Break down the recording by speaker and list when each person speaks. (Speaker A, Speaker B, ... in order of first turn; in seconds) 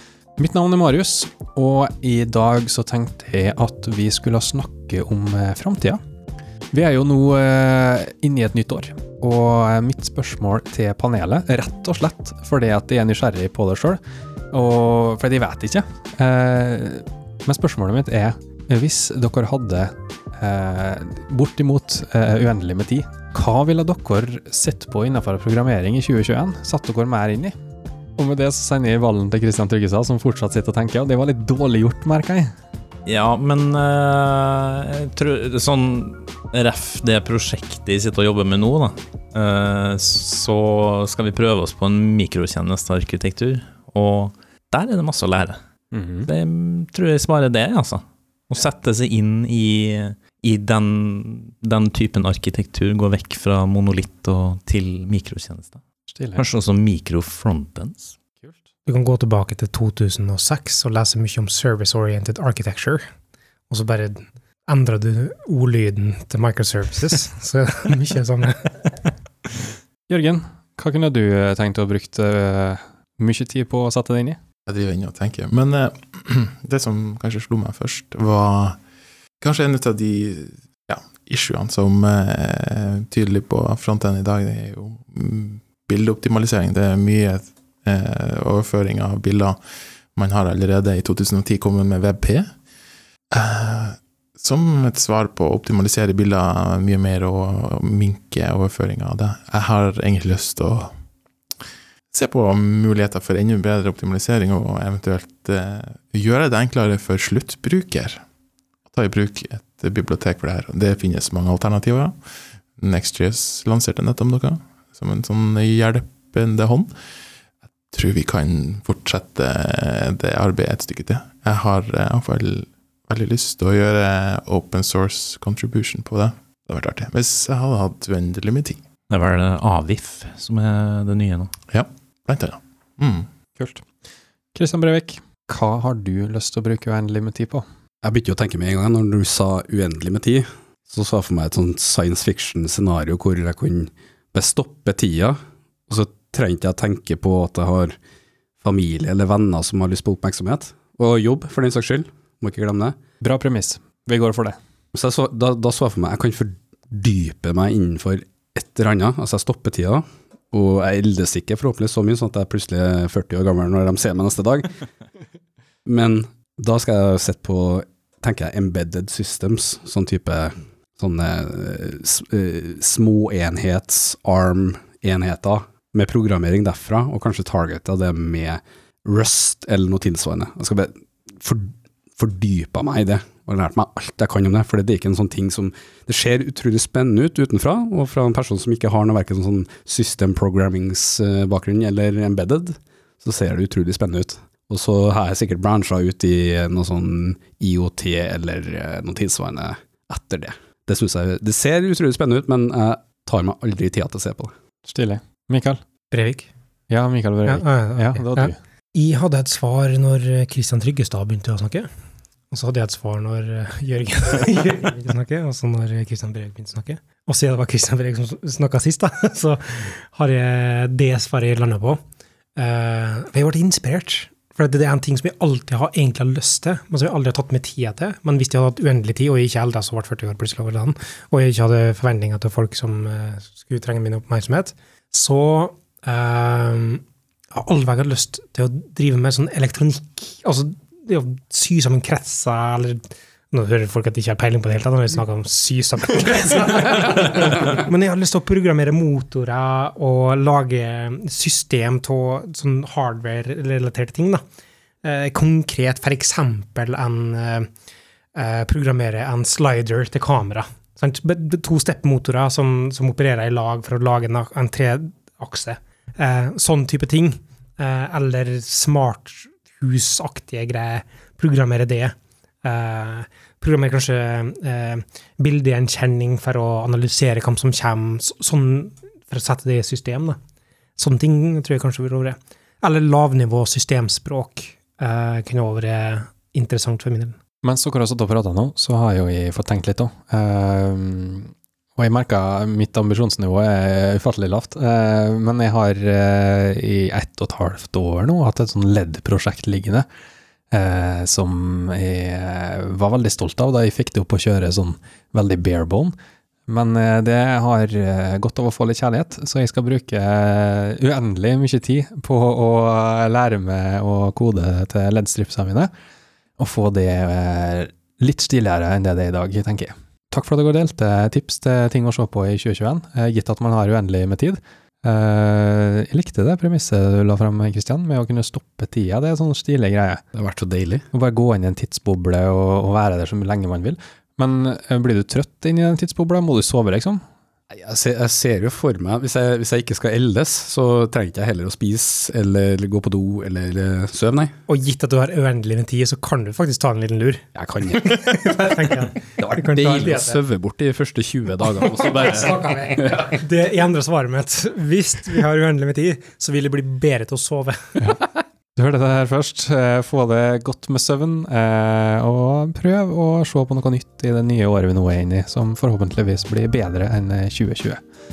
Speaker A: 0.4-6.0, 6.7-14.0, 14.5-27.5, 28.2-32.5, 45.9-46.3, 56.1-56.5, 70.1-74.4, 133.6-133.8, 134.5-137.6, 153.2-154.6, 204.8-205.8, 206.9-208.5, 287.6-300.1, 300.7-306.1, 306.7-315.9, 316.6-330.2, 331.1-337.2, 358.8-368.0
Speaker B: 33.0-45.6, 46.2-55.8, 56.4-58.1, 129.1-131.5
Speaker C: 58.8-63.0, 63.7-68.7, 206.1-206.5, 207.4-211.9, 212.5-222.0, 222.6-237.0, 237.5-254.4, 255.0-257.7, 258.3-280.4, 281.0-287.4, 344.7-347.4, 347.9-350.4, 351.8-358.1
Speaker D: 74.7-78.8, 79.4-89.6, 90.2-92.5, 93.3-100.9, 102.1-108.2, 108.9-112.1, 112.8-116.9, 117.9-128.8, 131.7-133.3
Speaker E: 138.0-145.4, 145.9-147.9, 148.6-153.0, 154.9-164.7, 165.8-204.5, 330.3-331.0, 337.7-344.5, 347.5-348.0, 349.4-353.3